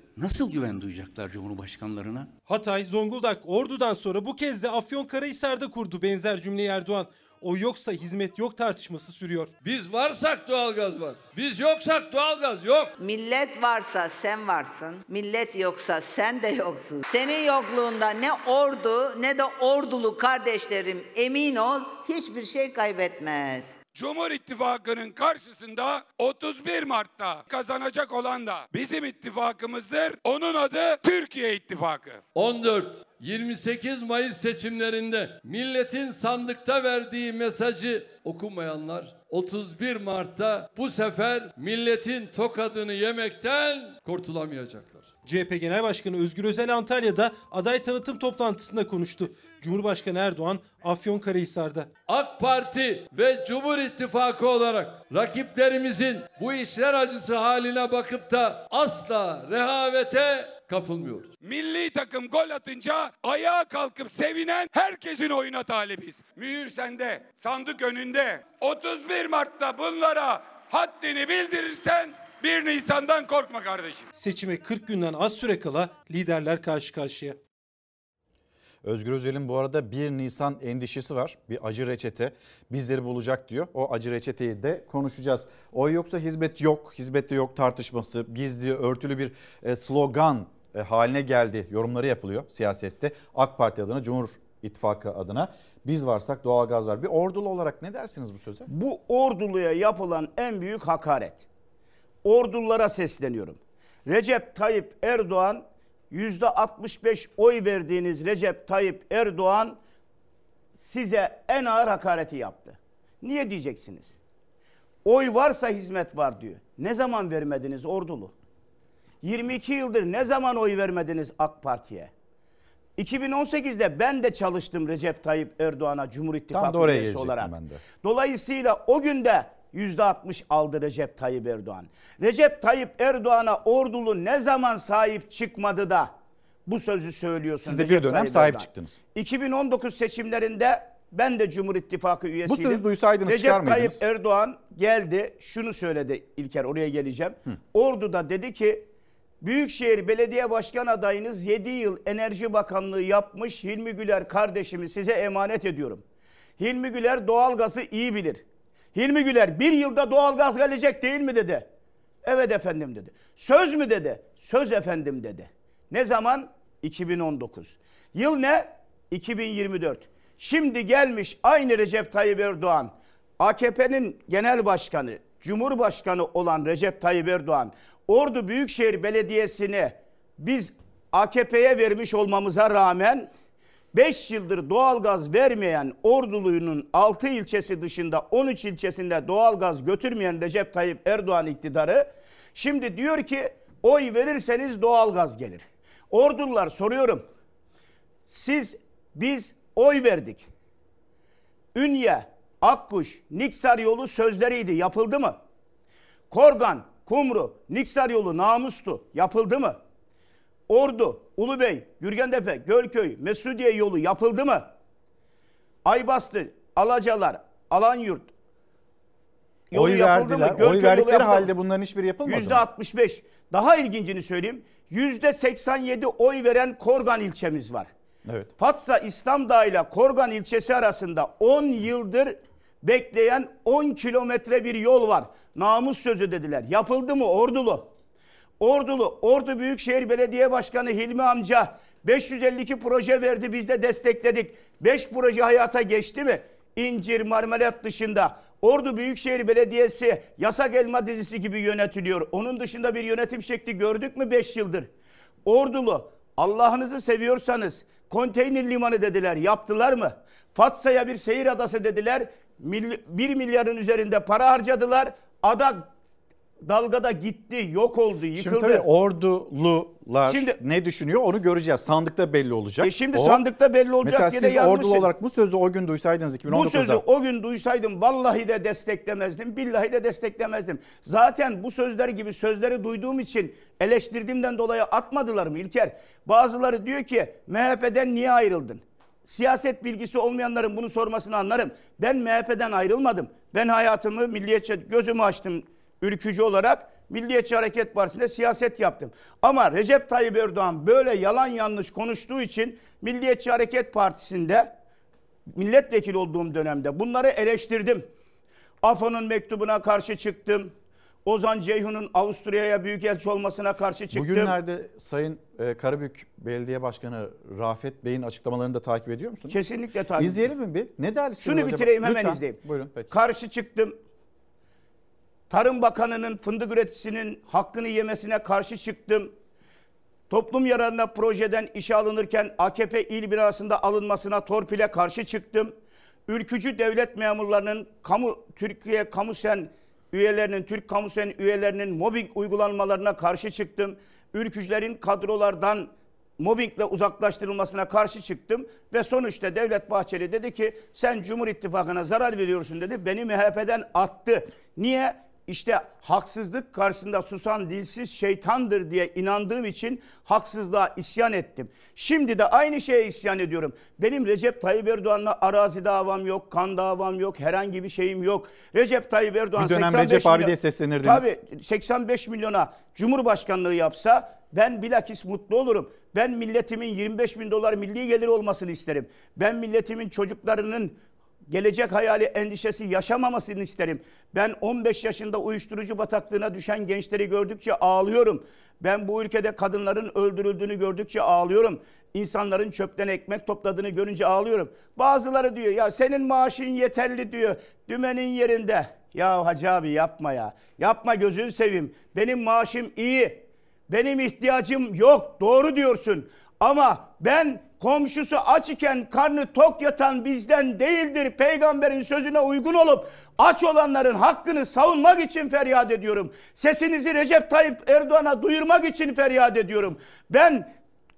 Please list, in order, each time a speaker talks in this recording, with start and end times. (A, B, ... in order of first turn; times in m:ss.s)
0:00.2-0:02.2 A
0:02.5-0:09.5 B
0:09.6-0:12.9 C
0:13.0-0:23.8 D
0:24.0-0:32.2 E
0:32.4-0:45.1 C
0:45.2-0:51.9 B
0:52.1-1:01.3 C
1:01.4-1:14.1 E
1:14.2-1:17.4 B
1:18.8-1:38.7 F
1:38.7-1:41.4 G
1:42.2-1:49.8 G
1:50.8-1:54.2 G
1:55.0-1:58.3 G
1:59.2-2:02.1 G
2:03.0-2:16.1 G
2:06.5-2:07.8 F
2:16.7-2:28.9 G
2:17.6-2:19.0 F
2:22.5-2:24.0 F
2:29.4-2:36.0 G
2:36.6-2:38.4 G
2:38.9-2:41.7 G
2:42.2-3:03.3 G
3:03.9-3:17.2 G
3:18.3-3:20.5 G
3:21.8-3:25.4 G
3:26.3-3:29.8 G
3:30.7-3:34.7 G
3:35.8-3:38.3 G
3:39.7-3:41.5 G
3:39.7-3:42.6 F
3:42.2-3:47.9 G
3:48.3-3:48.5 F
3:48.6-3:57.9 G
3:58.6-4:14.9 G
4:15.5-4:25.9 G
4:26.6-4:28.8 G
4:28.4-4:33.4 F
4:30.2-4:30.6 G
4:32.8-4:35.1 G
4:34.0-4:37.0 F
4:36.5-5:04.8 G
5:05.5-5:08.1 G
5:08.8-5:10.7 G
5:11.2-5:14.6 G
5:14.1-5:19.6 F
5:19.5-5:20.4 G
5:20.2-5:23.1 F
5:21.4-5:22.6 G
5:23.1-5:24.0 G
5:25.5-5:29.3 G
5:30.3-5:35.8 G
5:36.3-7:00.7 G
6:09.6-6:11.2 F